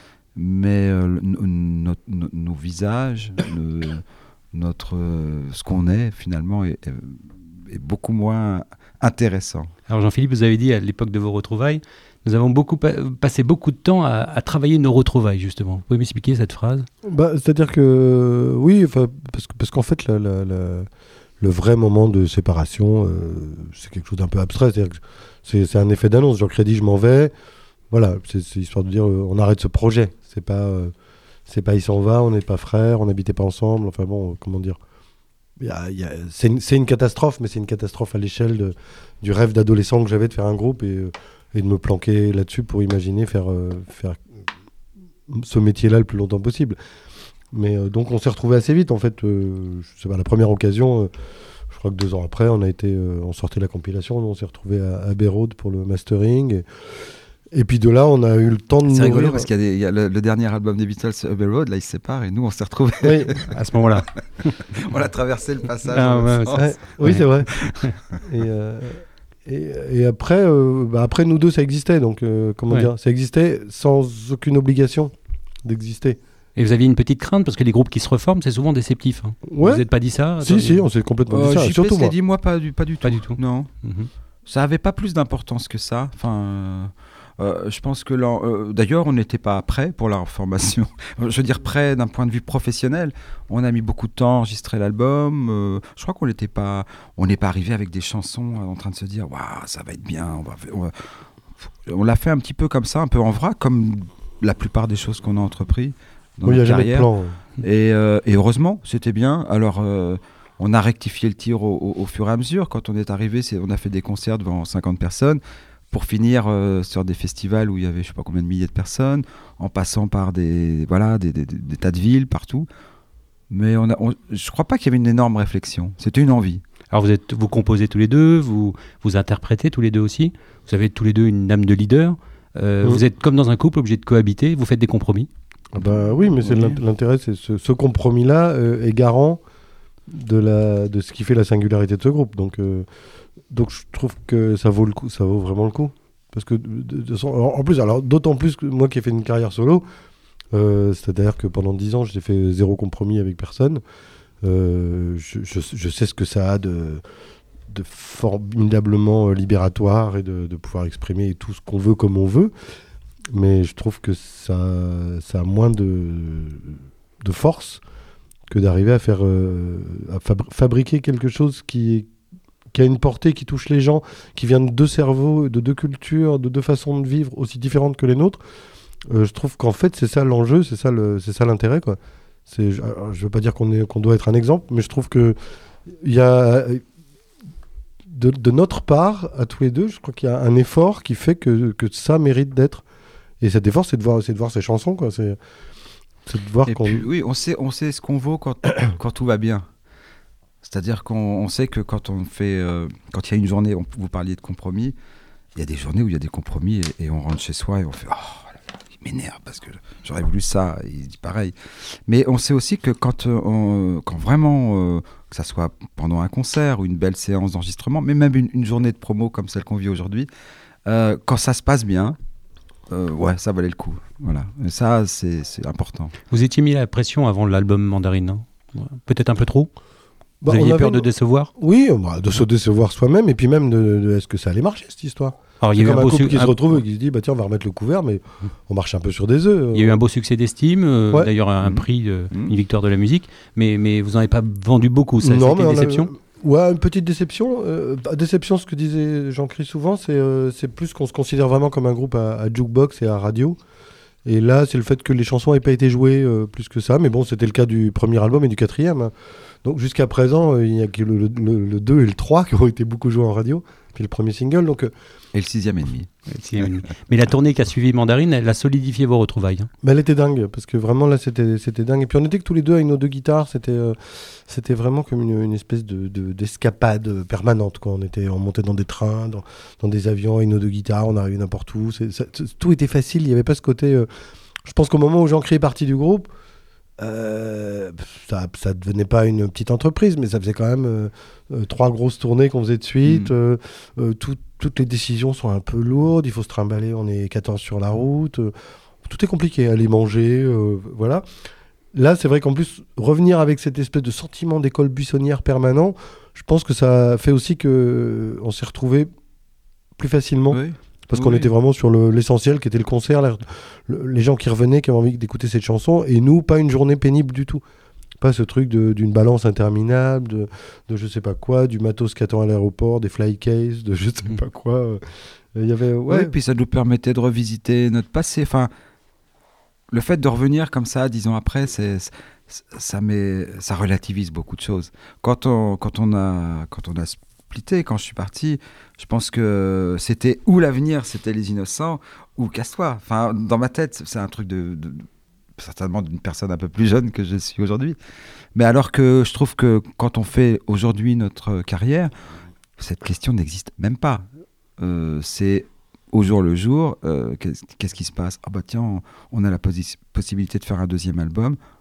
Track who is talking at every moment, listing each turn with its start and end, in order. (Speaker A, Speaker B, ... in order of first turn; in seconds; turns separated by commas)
Speaker A: 0.3-9.7, Speaker B: 9.9-16.9, Speaker C: 17.0-20.9, Speaker C: 21.4-27.3, Speaker C: 27.9-30.9, Speaker C: 31.5-34.8, Speaker C: 35.6-44.2, Speaker C: 45.3-46.8, Speaker C: 47.5-51.1, Speaker C: 51.7-56.6, Speaker C: 57.5-59.5, Speaker A: 58.8-63.6, Speaker C: 63.0-63.3, Speaker B: 63.4-64.7, Speaker A: 64.7-67.9, Speaker B: 65.9-67.9, Speaker C: 66.5-67.5, Speaker C: 68.2-75.1, Speaker C: 75.6-76.2, Speaker B: 76.5-80.8, Speaker C: 79.5-79.8, Speaker C: 80.4-82.1, Speaker A: 81.3-83.7, Speaker B: 83.0-84.1, Speaker A: 84.5-100.9, Speaker A: 101.8-107.1, Speaker C: 106.4-107.4, Speaker A: 107.6-115.4, Speaker A: 115.9-122.7, Speaker A: 123.5-126.6, Speaker B: 126.9-135.3, Speaker C: 135.7-139.4, Speaker A: 135.8-136.8, Speaker C: 140.1-142.8, Speaker C: 143.5-149.8, Speaker C: 150.5-153.8, Speaker C: 154.4-157.0, Speaker C: 157.7-162.5, Speaker C: 163.3-167.8, Speaker C: 168.5-172.1, Speaker C: 172.7-178.4, Speaker C: 179.1-185.3, Speaker C: 185.9-186.8, Speaker C: 188.1-192.8, Speaker C: 193.4-195.4, Speaker C: 196.2-197.0, Speaker A: 196.7-199.7, Speaker A: 200.6-204.9, Speaker A: 205.6-211.5, Speaker A: 212.1-220.3, Speaker A: 220.8-222.2, Speaker A: 222.9-226.1, Speaker B: 226.3-229.7, Speaker C: 230.4-240.0, Speaker B: 230.5-231.5, Speaker B: 235.6-236.8, Speaker B: 239.7-246.1, Speaker A: 241.6-242.5, Speaker C: 245.2-253.6, Speaker C: 254.2-259.1, Speaker C: 259.6-264.9, Speaker A: 265.3-266.1, Speaker B: 266.3-269.7, Speaker C: 269.8-284.1, Speaker C: 284.6-286.3, Speaker C: 287.0-301.2, Speaker A: 293.0-293.3, Speaker C: 301.9-309.1, Speaker C: 310.0-317.6, Speaker A: 310.5-311.5, Speaker C: 318.2-325.0, Speaker C: 325.5-326.3, Speaker A: 326.1-328.7, Speaker A: 329.9-345.1, Speaker A: 345.6-348.0, Speaker A: 348.5-352.1, Speaker A: 352.8-354.2, Speaker A: 354.8-361.6